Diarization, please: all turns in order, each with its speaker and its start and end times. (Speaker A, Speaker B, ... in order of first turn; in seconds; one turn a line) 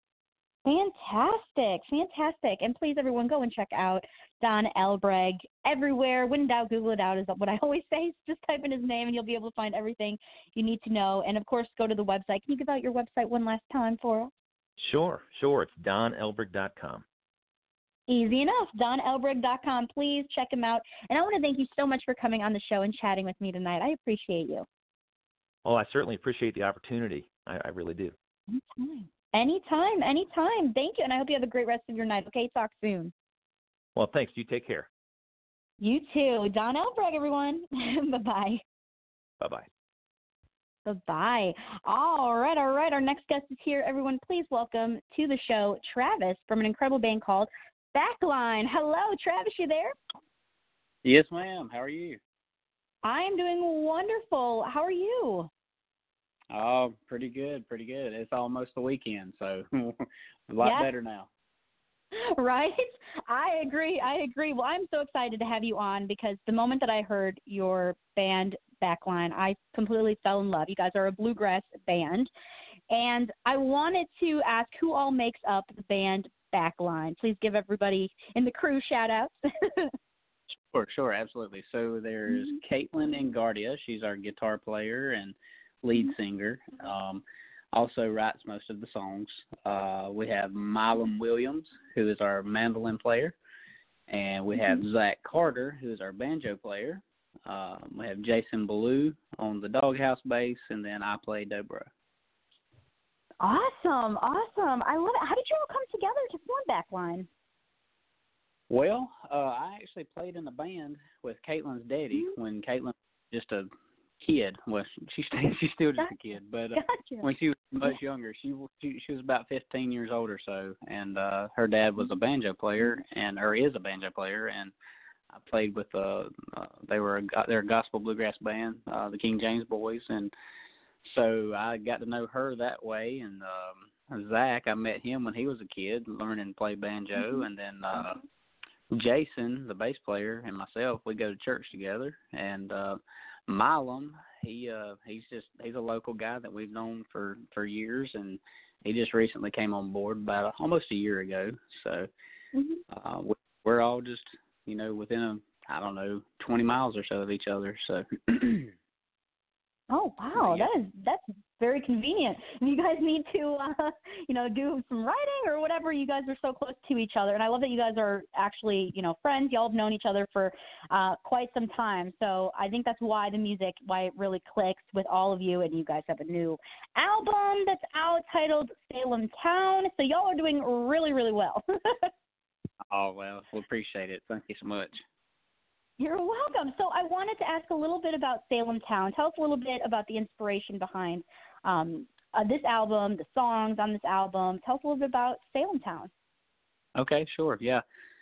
Speaker A: 0.6-14.3
Speaker B: 14.8-17.0
Speaker A: 18.1-24.7
Speaker B: 25.6-28.1
Speaker A: 28.5-33.1
Speaker B: 34.0-34.9
Speaker A: 35.8-38.6
Speaker B: 39.4-39.7
Speaker A: 40.9-50.0
Speaker C: 51.0-52.2
Speaker A: 53.0-55.5
Speaker C: 56.5-61.3
Speaker A: 60.6-60.9
Speaker A: 62.1-72.3
Speaker A: 72.9-79.9
Speaker C: 80.7-93.4
Speaker A: 82.3-82.6
Speaker C: 94.1-101.9
Speaker A: 94.5-94.8
Speaker A: 103.4-107.3
Speaker C: 108.7-124.7
Speaker A: 116.8-117.3
Speaker C: 125.3-130.3
Speaker C: 131.0-138.2
Speaker A: 137.2-137.4
Speaker C: 138.9-152.1
Speaker A: 152.6-152.8
Speaker C: 152.9-158.7
Speaker A: 159.9-182.1
Speaker C: 160.3-160.7
Speaker C: 182.9-185.0
Speaker A: 186.0-196.1
Speaker C: 197.0-197.8